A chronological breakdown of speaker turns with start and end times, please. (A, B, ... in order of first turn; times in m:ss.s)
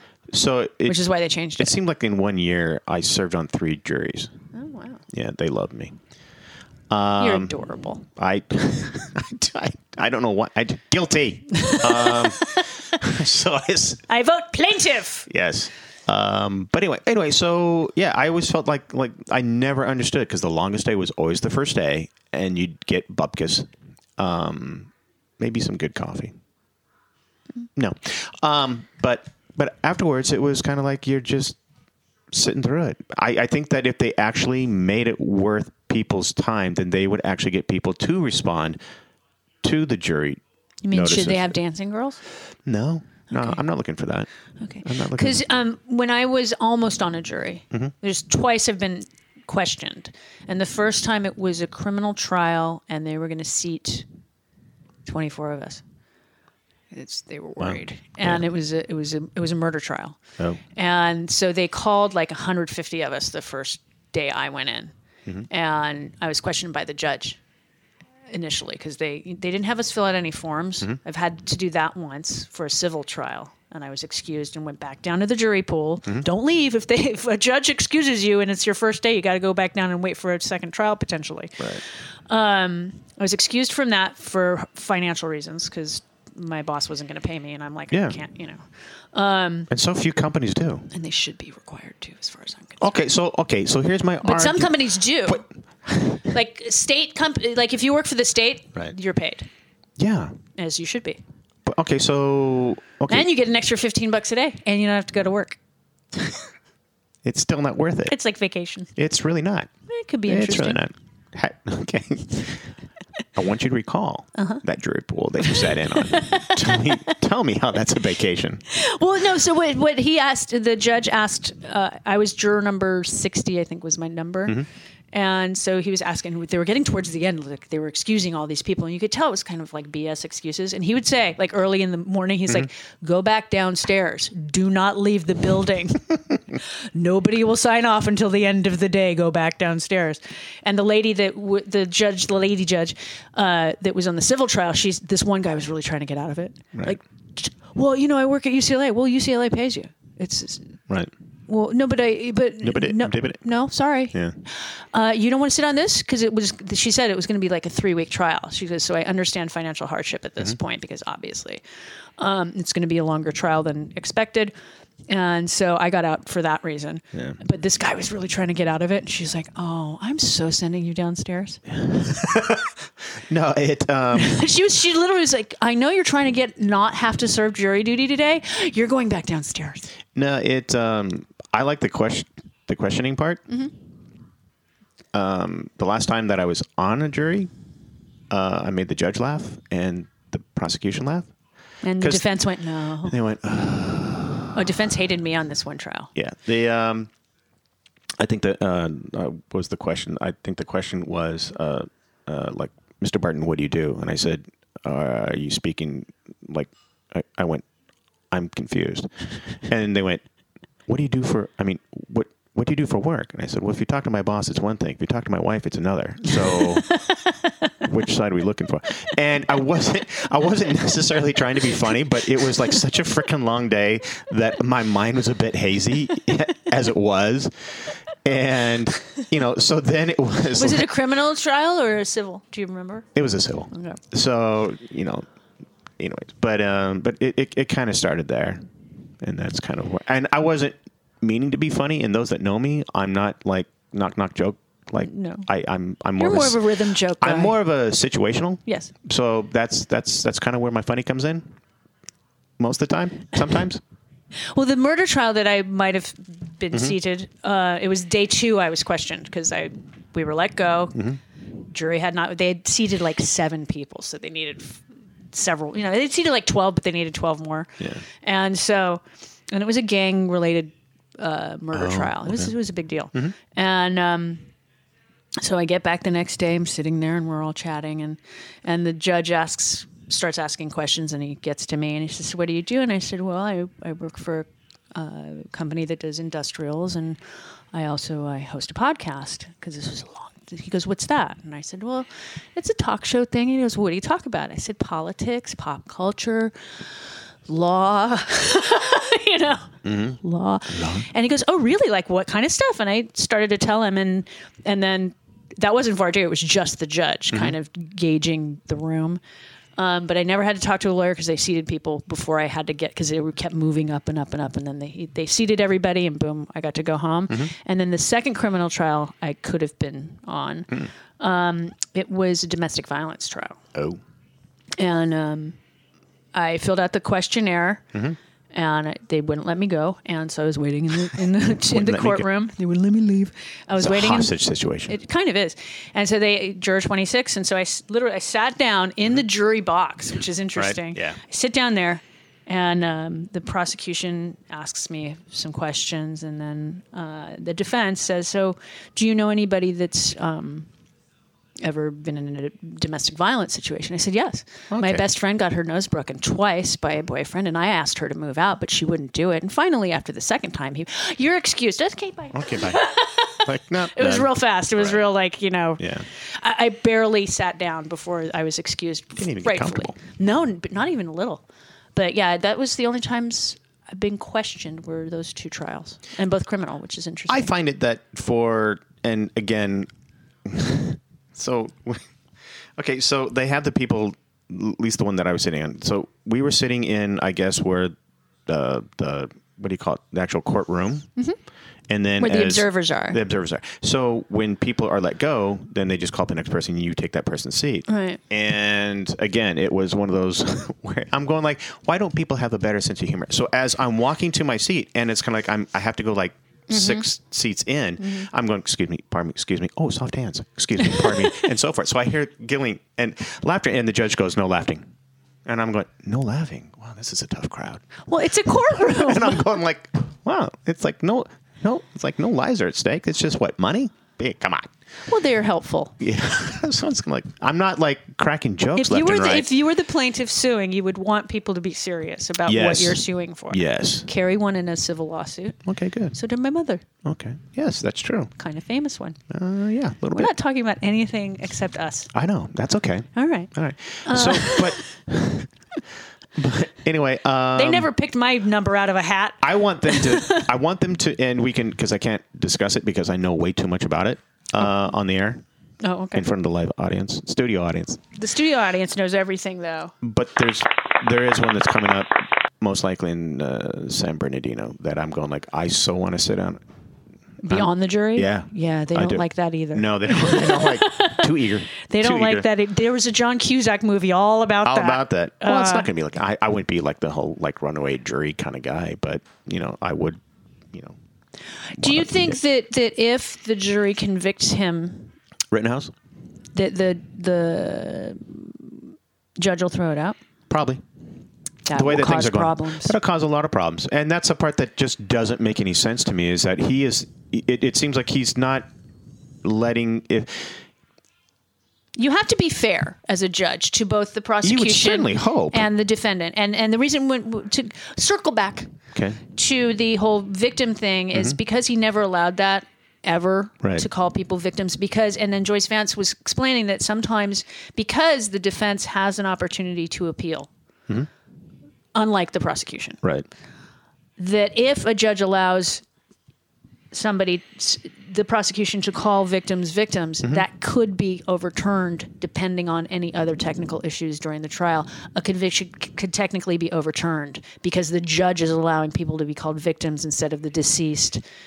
0:00.3-0:01.0 A
0:00.8-0:01.7 B
0:01.6-0:04.3 A
0:04.5-0:05.0 B
0:05.1-0:06.0 A
0:06.9-0:14.0 A
0:07.2-0:08.0 B
0:11.5-0:12.7 B
0:14.1-0:15.3 B
0:15.3-0:26.3 A
0:27.8-0:31.6 A
0:32.3-0:38.8 A
0:39.6-0:41.6 A
0:40.8-0:42.2 B
0:42.6-0:44.3 A
0:43.3-0:43.6 B
0:44.6-0:54.0 B
0:44.8-0:45.4 A
0:55.0-0:55.8 B
0:56.9-1:00.2 B
0:57.6-0:58.4 A
1:00.7-1:04.9 B
1:05.5-1:07.4 B
1:08.3-1:21.7 B
1:22.3-1:29.7 B
1:27.9-1:28.2 A
1:29.7-1:30.9 A
1:30.9-1:33.0 B
1:32.8-1:36.3 A
1:34.2-1:35.4 B
1:36.2-1:39.5 B
1:40.0-1:40.4 A
1:40.6-1:41.2 B
1:41.6-1:43.3 A
1:43.1-1:45.6 B
1:47.2-1:48.2 A
1:48.1-1:48.9 B
1:49.0-1:49.7 A
1:49.9-1:50.8 B
1:50.3-1:52.7 A
1:53.3-1:58.6 A
1:54.3-1:54.6 B
1:55.5-1:56.8 B
1:58.7-2:30.8 B
2:31.5-2:41.6 B
2:32.6-2:33.4 A
2:42.2-2:44.5 B
2:45.1-2:51.6 B
2:51.7-2:54.4 A
2:54.1-2:59.8 B
3:00.1-3:03.4 A
3:05.1-3:07.5 A
3:08.3-3:11.3 A
3:11.8-3:13.2 B
3:12.0-3:12.3 A
3:13.0-3:14.5 A
3:14.5-3:16.1 B
3:16.1-3:17.1 A
3:18.2-3:27.6 A
3:28.3-3:30.2 A
3:30.9-3:36.9 A
3:36.9-3:37.3 B
3:37.8-3:50.9 A
3:50.6-3:53.1 B
3:53.1-3:55.3 A
3:53.7-3:54.0 B
3:56.0-3:58.6 A
3:59.2-4:06.6 A
4:05.0-4:05.5 B
4:06.2-4:07.6 B
4:07.2-4:11.5 A
4:08.6-4:08.9 B
4:12.6-4:13.8 A
4:14.5-4:21.0 B
4:21.6-4:34.4 B
4:31.7-4:32.5 A
4:35.4-4:47.2 B
4:47.7-4:56.5 B
4:57.5-5:09.2 B
4:59.8-5:01.1 A
5:09.8-5:23.6 B
5:23.7-5:24.0 A
5:24.8-5:25.6 B
5:26.3-5:27.8 B
5:28.5-5:34.3 B
5:31.6-5:32.3 A
5:33.8-5:34.9 A
5:34.9-5:50.7 B
5:40.6-5:41.2 A
5:51.6-6:11.4 B
5:54.7-5:55.0 A
6:02.3-6:05.0 A
6:05.8-6:06.0 A
6:09.2-6:10.0 A
6:11.9-6:17.5 B
6:17.3-6:19.9 A
6:20.4-6:22.1 A
6:22.8-6:27.9 A
6:28.5-6:31.1 A
6:31.9-6:54.9 A
6:32.2-6:33.2 B
6:37.9-6:38.2 B
6:46.7-6:47.0 B
6:48.0-6:48.3 B
6:50.8-6:51.3 B
6:55.4-6:57.9 A
6:58.1-6:59.5 B
6:58.7-7:04.7 A
7:05.1-7:05.9 B
7:06.0-7:09.5 A
7:08.8-7:15.6 B
7:12.4-7:14.0 A
7:15.6-7:16.1 A
7:16.1-7:16.8 B
7:17.0-7:18.3 A
7:18.4-7:19.2 B
7:19.3-7:20.3 A
7:20.1-7:22.1 B
7:22.1-7:25.5 A
7:23.1-7:23.5 B
7:24.0-7:24.9 B
7:26.4-7:27.9 A
7:27.5-7:30.5 B
7:29.4-7:35.4 A
7:35.8-7:36.3 B
7:36.1-7:38.0 A
7:38.1-7:39.9 B
7:40.0-7:46.6 A
7:47.4-7:55.9 B
7:47.5-7:52.5 A
7:54.6-8:00.2 A
8:01.7-8:05.1 B
8:01.8-8:02.4 A
8:05.5-8:05.9 A
8:06.5-8:10.2 B
8:10.5-8:10.8 A
8:11.6-8:13.0 B
8:11.7-8:18.7 A
8:19.4-8:20.6 A
8:22.0-8:28.7 B
8:24.4-8:25.6 A
8:28.9-8:29.2 A
8:29.3-8:40.5 B
8:41.9-8:43.0 B
8:43.0-8:43.3 A
8:44.2-8:45.8 B
8:46.9-9:01.2 B